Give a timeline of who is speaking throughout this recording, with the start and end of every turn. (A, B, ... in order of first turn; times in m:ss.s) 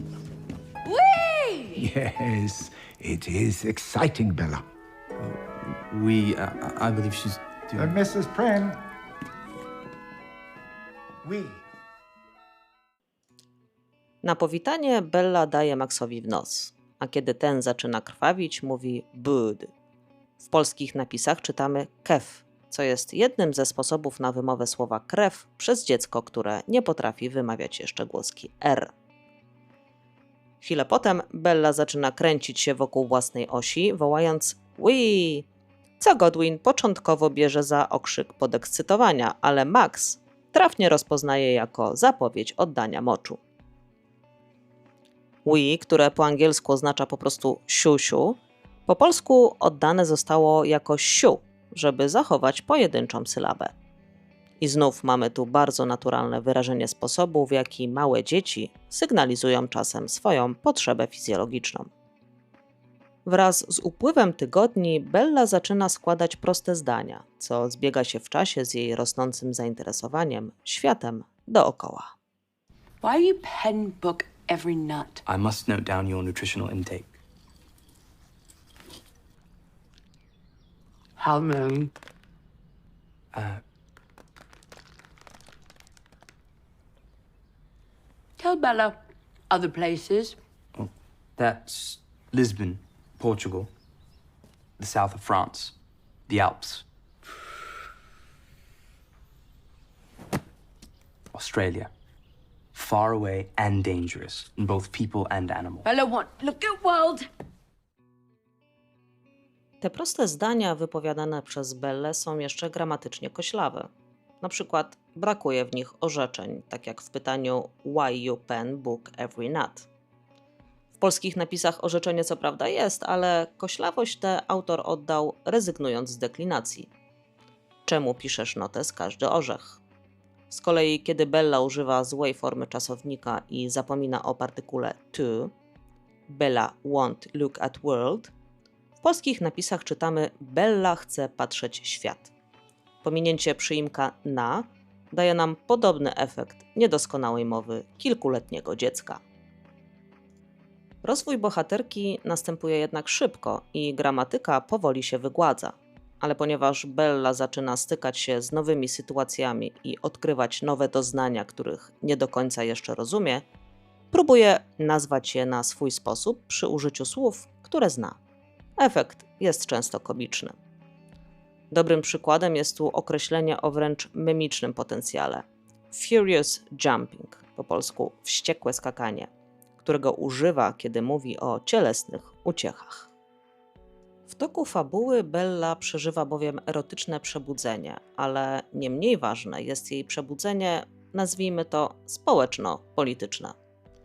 0:00.9-0:01.8 A
0:01.7-0:04.6 B
0:05.2-0:08.0 C
0:07.8-0:08.8 B
0:11.2-0:11.6 B
0:14.2-0:19.7 D
0:20.4-0:28.9 D
0:30.6-0:35.5 D
0:36.0-0:43.4 D
0:45.4-0:53.7 D
0:54.6-1:01.9 D
1:03.2-1:12.1 D
1:13.0-1:15.2 A
1:15.3-1:17.1 C
1:21.2-1:21.9 A
1:23.3-1:23.6 C
1:28.4-1:29.0 A
1:29.5-1:30.4 A
1:30.8-1:33.7 C
1:34.8-1:35.8 C
1:36.3-1:36.8 C
1:41.3-1:41.9 C
1:42.7-1:45.9 C
1:45.8-1:47.2 A
1:49.8-1:53.9 D
1:54.4-1:59.9 D
2:01.0-2:06.9 D
2:07.9-2:09.8 D
2:10.5-2:15.5 D
2:16.3-2:18.3 D
2:19.0-2:22.3 D
2:23.0-2:29.2 D
2:31.0-2:43.4 D
2:44.1-2:48.2 D
2:48.8-2:50.6 D
2:51.7-2:59.3 D
2:59.8-3:03.1 D
3:04.3-3:13.5 D